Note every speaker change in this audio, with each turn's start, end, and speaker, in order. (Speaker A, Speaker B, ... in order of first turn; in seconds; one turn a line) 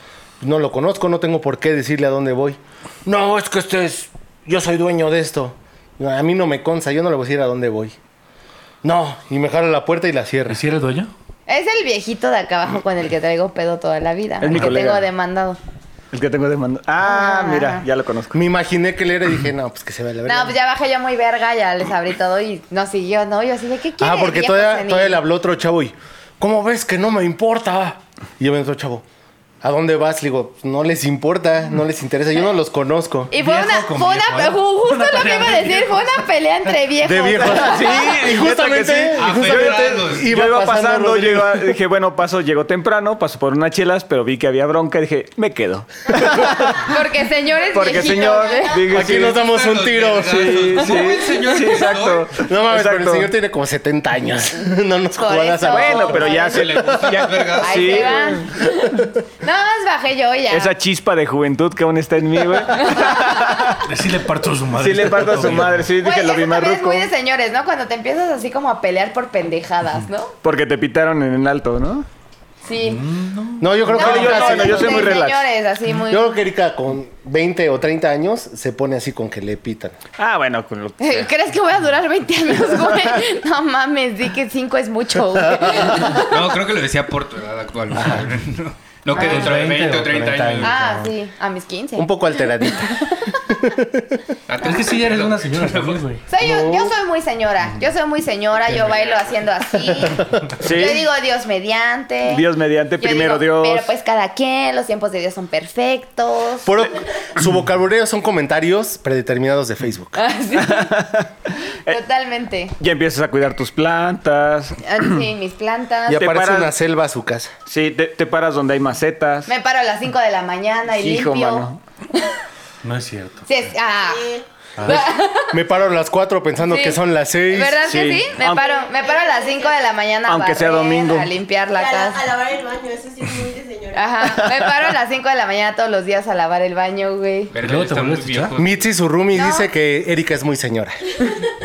Speaker A: 0.4-8.0
Speaker A: 8.8-10.6
Speaker B: 10.5-11.1
Speaker C: 11.5-15.6
Speaker D: 14.4-15.1
Speaker D: 16.1-18.4
Speaker C: 17.0-17.9
Speaker A: 18.3-20.6
Speaker C: 20.3-25.2
Speaker A: 24.0-29.0
Speaker A: 29.6-33.3
Speaker C: 33.3-38.1
Speaker B: 33.3-36.1
Speaker A: 37.0-41.8
Speaker D: 37.4-47.0
Speaker E: 39.2-40.3
Speaker C: 46.8-48.8
Speaker D: 47.7-49.4
Speaker A: 48.9-50.7
Speaker E: 49.2-52.3
Speaker D: 50.3-53.3
Speaker A: 52.4-56.7
Speaker C: 55.2-56.6
Speaker D: 55.6-58.6
Speaker E: 56.3-58.2
Speaker C: 57.6-60.7
Speaker D: 60.5-63.9
Speaker C: 62.8-63.7
Speaker B: 63.8-65.9
Speaker D: 64.8-67.1
Speaker C: 66.0-70.3
Speaker D: 70.4-72.1
Speaker C: 72.7-73.0
Speaker B: 72.8-74.1
Speaker A: 73.6-75.2
Speaker C: 73.9-76.4
Speaker D: 74.0-75.5
Speaker A: 76.1-80.0
Speaker D: 80.2-81.3
Speaker C: 81.0-86.3
Speaker E: 86.1-90.8
Speaker B: 87.9-88.3
Speaker B: 89.1-91.1
Speaker C: 89.2-89.5
Speaker C: 90.6-92.2
Speaker A: 92.0-94.2
Speaker E: 94.5-96.0
Speaker B: 94.6-96.2
Speaker C: 96.3-102.4
Speaker A: 96.4-96.9
Speaker A: 100.0-100.4
Speaker D: 100.6-101.1
Speaker D: 102.2-103.9
Speaker C: 103.0-106.7
Speaker A: 106.6-110.2
Speaker C: 110.2-110.9
Speaker D: 110.5-111.3
Speaker C: 111.9-112.8
Speaker D: 112.8-115.2
Speaker C: 114.8-116.3
Speaker A: 116.1-117.5
Speaker D: 116.1-116.7
Speaker D: 117.7-119.5
Speaker C: 119.5-122.3
Speaker D: 120.9-121.8
Speaker B: 122.8-123.5
Speaker C: 123.5-124.2
Speaker F: 124.0-124.5
Speaker B: 124.8-125.1
Speaker C: 124.8-125.5
Speaker A: 125.5-127.8
Speaker C: 126.7-127.0
Speaker C: 127.5-132.3
Speaker D: 127.8-128.8
Speaker F: 128.5-129.9
Speaker D: 130.3-131.3
Speaker F: 131.8-134.2
Speaker C: 133.9-137.5
Speaker D: 134.2-134.6
Speaker E: 137.5-138.9
Speaker B: 137.6-138.6
Speaker A: 138.6-141.1
Speaker C: 139.3-139.7